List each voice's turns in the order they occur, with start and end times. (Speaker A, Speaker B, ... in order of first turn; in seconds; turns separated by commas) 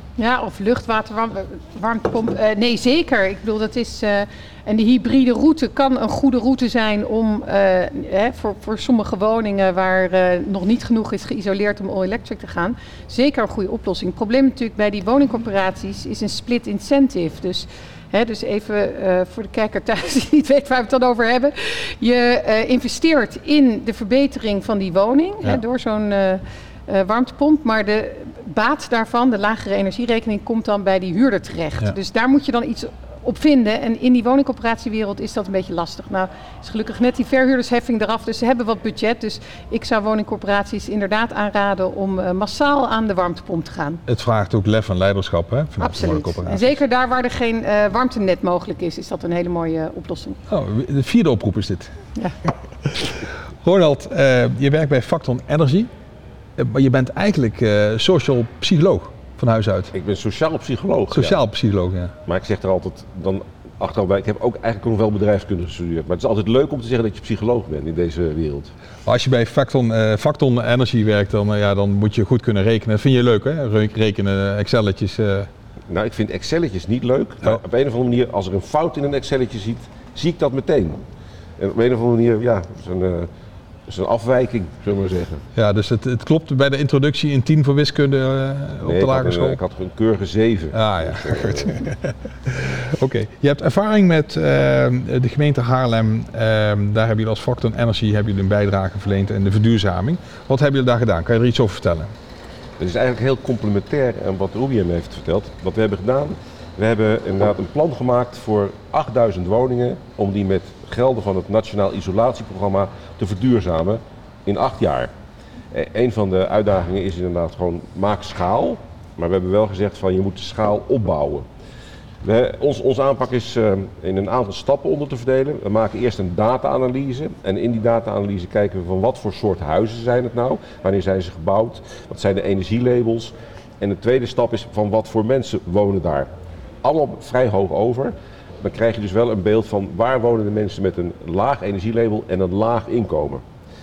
Speaker A: 0.2-44.0, Speaker B: 44.1-46.8, Speaker A: 45.8-50.4, Speaker B: 50.5-55.9, Speaker B: 56.6-59.9, Speaker C: 59.9-61.4, Speaker B: 61.1-62.1, Speaker C: 62.2-68.7, Speaker B: 69.0-75.5, Speaker C: 75.9-81.0, Speaker C: 81.6-83.3, Speaker C: 83.9-85.4, Speaker B: 85.5-89.6, Speaker C: 88.8-91.7, Speaker B: 90.7-102.1, Speaker C: 102.8-115.1, Speaker C: 115.7-121.5, Speaker C: 122.2-136.3, Speaker C: 136.8-143.4